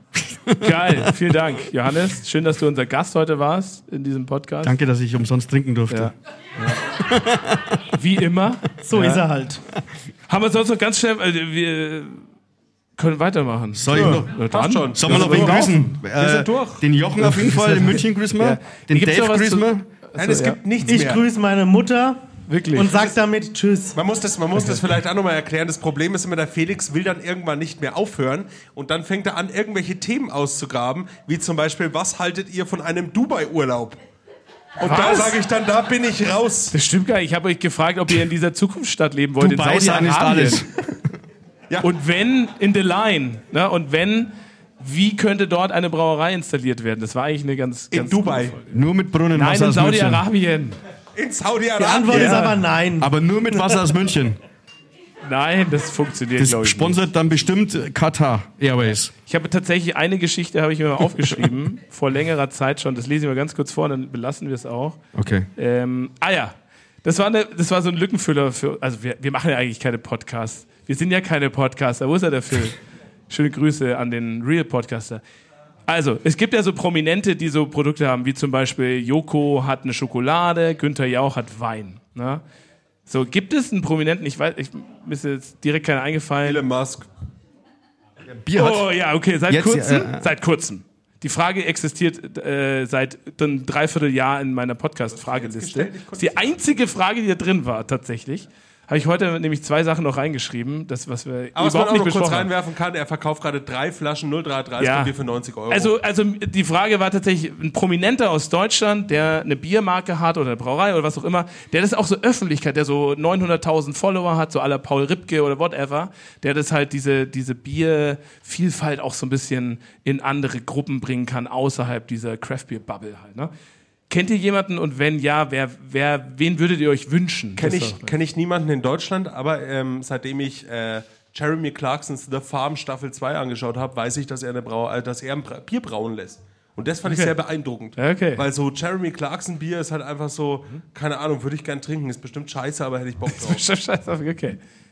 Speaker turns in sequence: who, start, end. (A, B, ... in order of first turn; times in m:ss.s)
0:00.2-0:01.1 A
0:00.6-0:04.8 B
0:04.6-0:06.1 A
0:05.9-0:06.8 B
0:06.8-0:07.8 A
0:07.9-0:09.2 B
0:08.8-0:09.6 C
0:10.3-0:12.2 B
0:13.0-0:15.6 B
0:13.7-0:14.4 A
0:14.0-0:16.9 D
0:14.9-0:19.9 A
0:17.2-0:21.1 B
0:20.2-0:21.2 D
0:20.9-0:22.2 C
0:22.5-0:23.0 B
0:22.7-0:24.0 C
0:22.8-0:23.2 D
0:24.0-0:34.0 D
0:34.8-0:36.7 D
0:34.8-0:35.4 B
0:36.7-0:40.6 B
0:39.4-0:40.9 A
0:41.8-0:48.7 B
0:47.9-0:48.6 D
0:48.7-0:50.2 A
0:49.3-0:50.8 B
0:51.1-0:52.6 D
0:51.8-0:53.1 C
0:52.1-0:52.4 B
0:53.0-0:54.4 A
0:55.2-0:57.0 B
0:56.4-0:59.1 A
0:59.3-1:05.0 B
1:05.1-1:05.5 A
1:05.6-1:12.8 B
1:13.3-1:15.2 B
1:15.9-1:22.4 B
1:23.1-1:26.6 B
1:26.4-1:27.1 D
1:28.2-1:28.9 A
1:28.5-1:42.5 B
1:29.5-1:30.3 A
1:35.1-1:36.5 D
1:41.6-1:45.9 D
1:44.8-1:45.1 B
1:45.7-2:03.5 B
2:04.1-2:08.1 B
2:07.6-2:23.6 D
2:17.0-2:17.3 B
2:18.0-2:18.4 B
2:23.3-2:24.6 B